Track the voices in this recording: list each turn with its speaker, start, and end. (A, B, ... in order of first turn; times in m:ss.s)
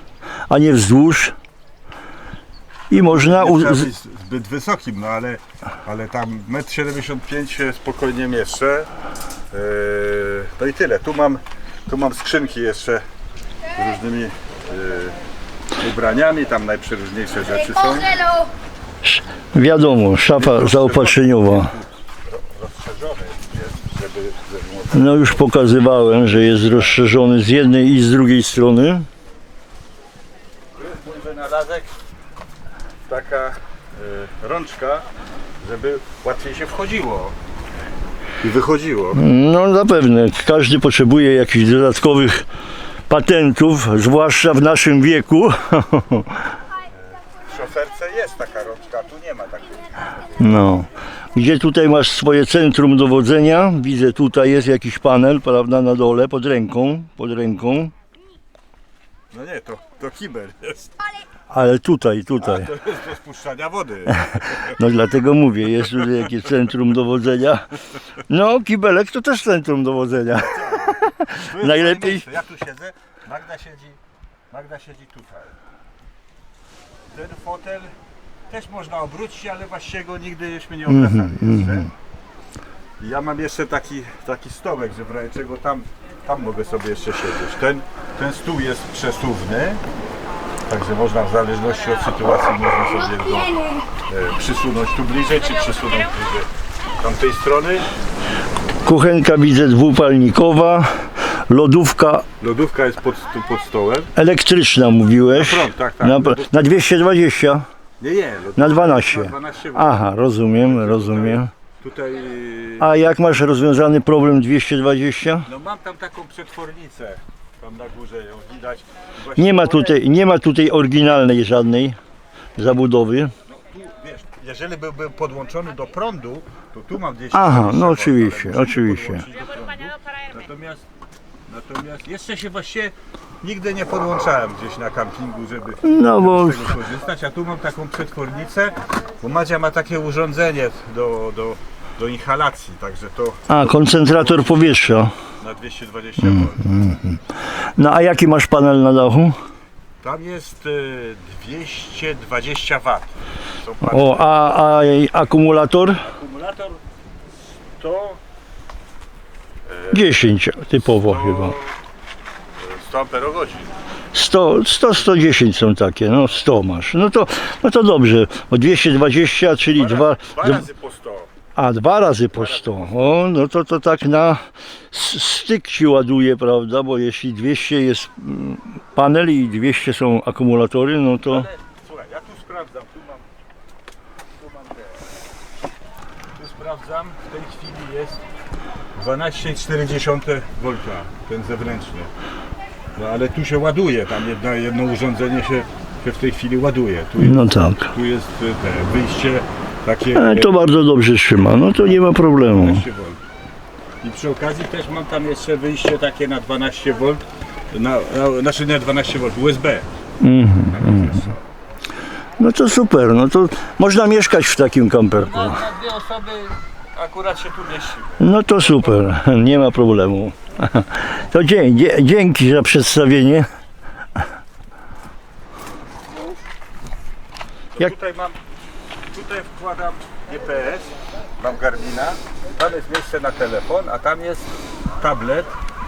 0:00.5-0:01.3 A
0:02.9-0:03.9 A
0:02.9-0:08.9 B
0:09.5-0:13.0 B
0:13.7-0:15.2 B
0:15.8-0:18.5 B
0:19.0-0:21.7 A
0:20.3-0:25.4 B
0:24.9-0:29.1 A
0:26.5-0:27.0 B
0:30.8-0:31.9 B
0:33.1-0:35.1 B
0:35.6-0:37.4 B
0:38.4-0:39.2 B
0:39.1-0:42.4 A
0:43.1-0:46.5 A
0:47.4-0:50.8 B
0:50.4-0:57.9 A
0:59.3-1:00.9 B
1:01.5-1:02.7 A
1:02.4-1:04.8 B
1:04.7-1:07.7 A
1:08.3-1:12.2 A
1:10.4-1:14.0 B
1:14.5-1:15.5 B
1:17.1-1:17.9 B
1:18.5-1:21.9 B
1:20.9-1:21.9 A
1:23.0-1:29.8 B
1:30.7-1:36.5 B
1:37.0-1:37.8 B
1:38.8-1:42.2 A
1:42.4-1:44.1 B
1:44.2-1:47.6 A
1:45.3-1:46.5 B
1:48.0-1:53.0 B
1:48.6-1:51.5 A
1:52.8-1:55.5 A
1:55.4-1:59.9 B
1:59.4-2:02.0 A
2:02.6-2:03.3 A
2:03.5-2:10.8 B
2:07.3-2:09.2 A
2:11.5-2:24.8 B
2:15.8-2:16.7 A
2:23.5-2:25.1 A
2:25.4-2:26.7 B
2:26.2-2:27.2 A
2:27.8-2:29.4 A
2:30.0-2:34.4 B
2:33.8-2:36.0 A
2:36.0-2:36.8 B
2:37.8-2:38.2 B
2:39.7-2:40.2 B
2:39.9-2:41.6 A
2:40.8-2:41.7 B
2:42.6-2:43.7 B
2:44.1-2:50.6 A
2:49.7-2:51.3 B
2:51.6-3:01.5 A
2:52.3-2:53.2 B
3:01.3-3:03.2 B
3:04.4-3:05.1 B
3:06.3-3:08.2 B
3:08.9-3:12.1 B
3:13.0-3:20.6 B
3:17.2-3:17.9 A
3:20.1-3:22.8 A
3:22.4-3:23.2 B
3:24.0-3:29.8 B
3:30.2-3:31.3 A
3:30.8-3:31.3 B
3:32.4-3:35.6 A
3:35.2-3:38.2 B
3:38.2-3:43.5 A
3:47.8-3:48.4 B
3:49.1-3:55.5 B